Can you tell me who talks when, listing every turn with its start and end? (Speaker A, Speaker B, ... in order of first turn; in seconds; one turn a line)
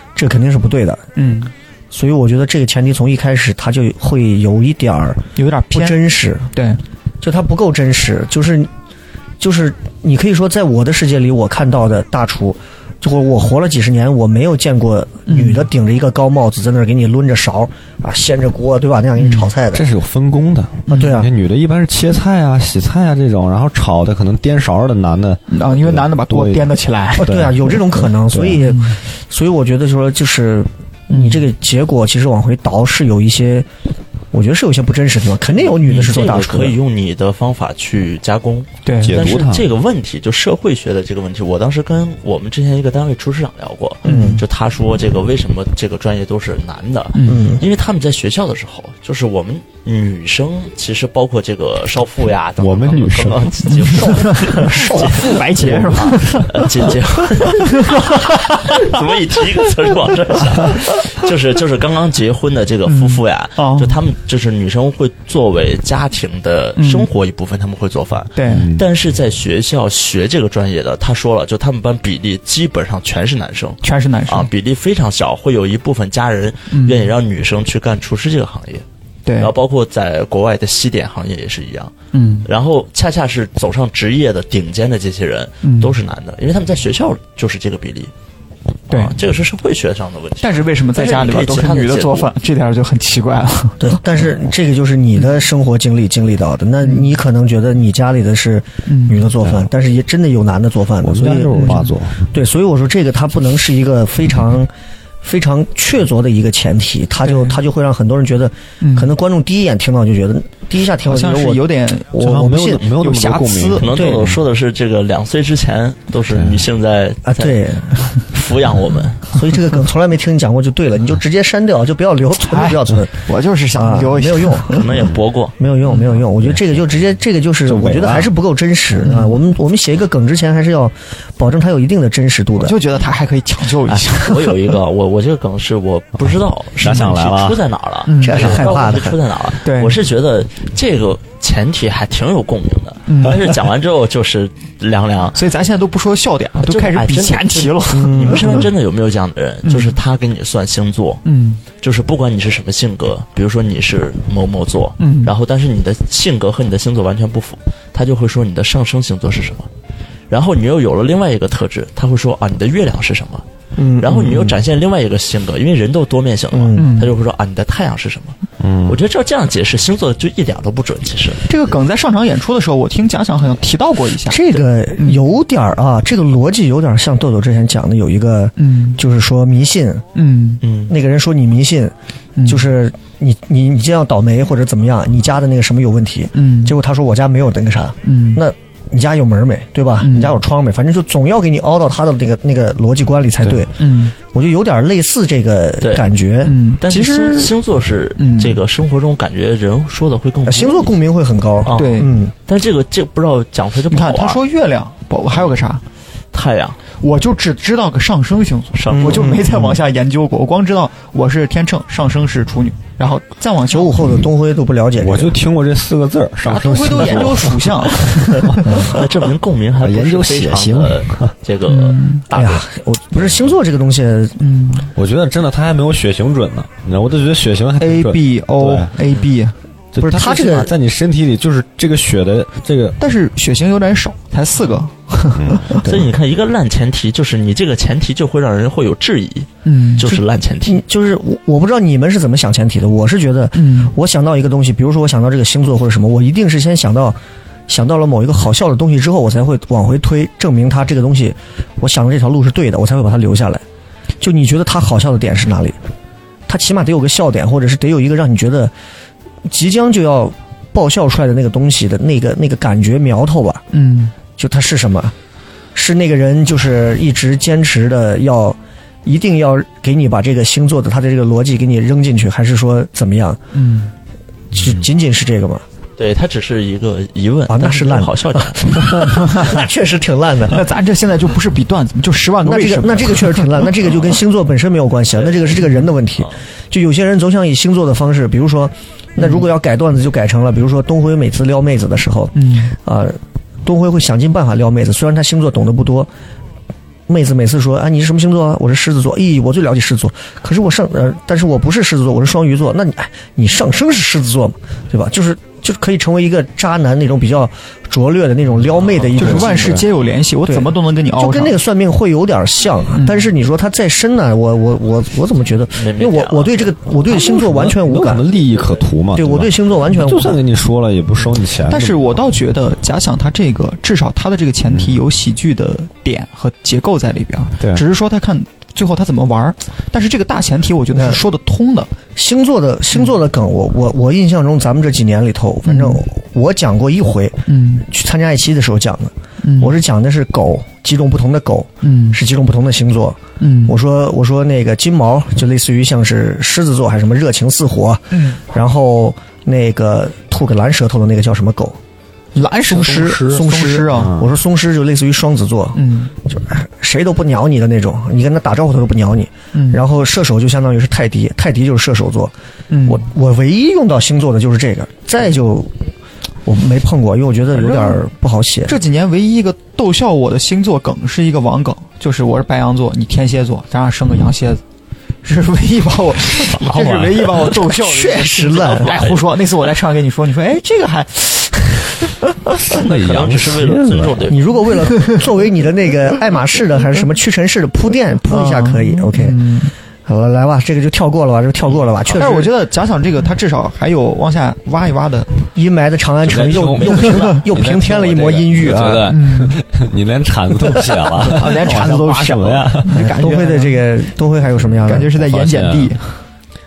Speaker A: 0.1-1.0
Speaker B: 1.1-1.5
Speaker A: 1.9-6.5
Speaker B: 5.3-6.0
Speaker B: 6.5-6.8
Speaker A: 7.2-8.7
Speaker A: 9.4-19.8
Speaker B: 15.3-15.7
Speaker B: 19.2-19.5
Speaker C: 19.7-28.6
Speaker B: 20.9-21.2
Speaker A: 20.9-21.3
Speaker B: 25.5-27.4
Speaker A: 27.1-33.7
Speaker B: 28.7-29.0
Speaker B: 31.1-31.4
Speaker A: 34.3-36.8
Speaker D: 35.8-78.8
Speaker B: 38.8-39.2
Speaker C: 39.0-39.6
Speaker A: 44.0-44.4
Speaker B: 44.0-44.4
Speaker B: 47.1-47.5
Speaker A: 47.3-47.6
Speaker C: 52.6-54.1
Speaker B: 53.9-56.8
Speaker C: 55.6-56.4
Speaker B: 57.3-58.9
Speaker B: 62.9-64.0
Speaker B: 66.8-67.1
Speaker B: 68.3-68.7
Speaker C: 68.5-68.8
Speaker B: 73.8-74.5
Speaker B: 76.7-77.1
Speaker B: 79.2-79.5
Speaker D: 79.4-88.1
Speaker B: 82.1-82.5
Speaker B: 85.6-86.0
Speaker D: 88.9-92.3
Speaker B: 88.9-89.2
Speaker B: 90.4-94.0
Speaker A: 93.8-104.7
Speaker B: 96.8-97.1
Speaker B: 98.9-99.3
Speaker C: 101.0-102.3
Speaker B: 101.5-101.9
Speaker A: 105.2-112.8
Speaker B: 107.2-107.6
Speaker B: 108.8-109.1
Speaker B: 111.0-112.3
Speaker C: 112.2-114.4
Speaker B: 112.8-113.9
Speaker D: 113.8-119.4
Speaker A: 113.9-114.2
Speaker C: 116.3-116.6
Speaker A: 117.2-118.1
Speaker A: 119.3-124.9
Speaker B: 122.4-125.0
Speaker D: 124.7-125.5
Speaker A: 125.6-132.8
Speaker B: 125.9-126.2
Speaker C: 127.7-128.3
Speaker B: 129.0-129.4
Speaker B: 132.6-134.7
Speaker D: 133.8-145.4
Speaker C: 136.8-137.6
Speaker B: 138.1-138.9
Speaker A: 138.2-139.2
Speaker B: 139.6-140.0
Speaker B: 143.1-143.5
Speaker B: 145.3-148.7
Speaker D: 146.6-151.2
Speaker A: 147.9-148.7
Speaker B: 149.6-150.0
Speaker B: 151.2-151.6
Speaker D: 151.8-159.7
Speaker B: 155.0-155.3
Speaker D: 160.3-163.4
Speaker A: 163.8-164.6
Speaker D: 164.0-171.4
Speaker A: 166.5-166.9
Speaker B: 166.8-167.1
Speaker C: 168.6-169.0
Speaker B: 171.5-175.3
Speaker A: 174.2-180.1
Speaker B: 178.6-179.0
Speaker B: 180.1-180.6
Speaker D: 180.6-180.9
Speaker A: 180.9-196.6
Speaker B: 182.4-182.7
Speaker B: 186.3-186.8
Speaker B: 188.0-188.4
Speaker B: 190.0-190.4
Speaker B: 193.8-194.1
Speaker D: 195.8-196.1
Speaker B: 196.4-197.5
Speaker D: 196.8-201.0
Speaker B: 198.2-198.6
Speaker A: 200.4-202.3
Speaker D: 201.6-204.4
Speaker B: 201.7-202.1
Speaker B: 203.9-205.8
Speaker D: 206.3-206.8
Speaker B: 207.0-214.1
Speaker D: 208.7-209.4
Speaker A: 208.9-209.8
Speaker A: 213.7-215.4
Speaker C: 215.0-218.6
Speaker B: 216.4-218.8
Speaker A: 218.6-219.0
Speaker D: 218.7-222.6
Speaker C: 219.8-221.3
Speaker B: 221.7-222.2
Speaker A: 222.3-224.4
Speaker C: 223.2-223.5
Speaker B: 224.4-224.9
Speaker C: 224.9-228.9
Speaker B: 227.8-229.5
Speaker C: 229.9-233.0
Speaker A: 230.0-230.7
Speaker B: 233.0-235.8
Speaker C: 235.3-235.9
Speaker D: 235.8-240.8
Speaker B: 239.6-240.0
Speaker A: 240.6-253.6
Speaker B: 243.5-243.9
Speaker A: 254.2-255.8
Speaker A: 256.5-258.7
Speaker A: 259.4-263.6
Speaker B: 263.7-264.1
Speaker A: 264.4-265.1
Speaker A: 265.7-273.4
Speaker B: 273.5-273.9
Speaker A: 274.5-275.6
Speaker D: 276.0-278.9
Speaker A: 277.5-280.6
Speaker B: 279.1-279.5
Speaker B: 280.5-284.0
Speaker A: 282.4-296.1
Speaker B: 289.2-289.4
Speaker B: 292.3-292.7
Speaker A: 297.1-309.8
Speaker B: 309.1-311.6
Speaker C: 309.1-309.8
Speaker A: 310.4-318.3
Speaker B: 312.9-313.3
Speaker D: 315.7-316.8
Speaker C: 317.1-322.0
Speaker A: 319.1-320.4
Speaker B: 321.7-331.9
Speaker C: 324.7-325.0
Speaker C: 327.6-327.8
Speaker A: 330.9-331.2
Speaker A: 332.1-351.8
Speaker B: 335.6-336.0
Speaker B: 337.5-337.9
Speaker B: 339.4-339.8
Speaker B: 341.8-342.2
Speaker B: 343.4-343.8
Speaker B: 348.1-348.4
Speaker B: 352.3-354.1
Speaker A: 352.7-362.3
Speaker C: 352.8-353.4
Speaker C: 353.9-354.3
Speaker B: 355.7-356.1
Speaker B: 359.5-359.8
Speaker B: 362.7-363.1
Speaker A: 362.9-365.9
Speaker A: 366.4-368.8
Speaker B: 367.5-368.0
Speaker B: 368.7-374.6
Speaker B: 375.2-382.3
Speaker C: 376.3-377.6
Speaker A: 377.6-378.9
Speaker D: 378.6-379.2
Speaker C: 382.6-384.3
Speaker D: 382.7-384.7
Speaker A: 384.3-389.5
Speaker B: 384.9-385.2
Speaker B: 388.3-389.7
Speaker A: 390.1-392.5
Speaker B: 392.1-395.4
Speaker A: 395.5-399.1
Speaker C: 396.2-403.1
Speaker B: 396.9-397.3
Speaker B: 399.1-399.6
Speaker B: 401.2-403.8
Speaker A: 402.9-405.1
Speaker C: 404.7-406.0
Speaker B: 404.8-406.1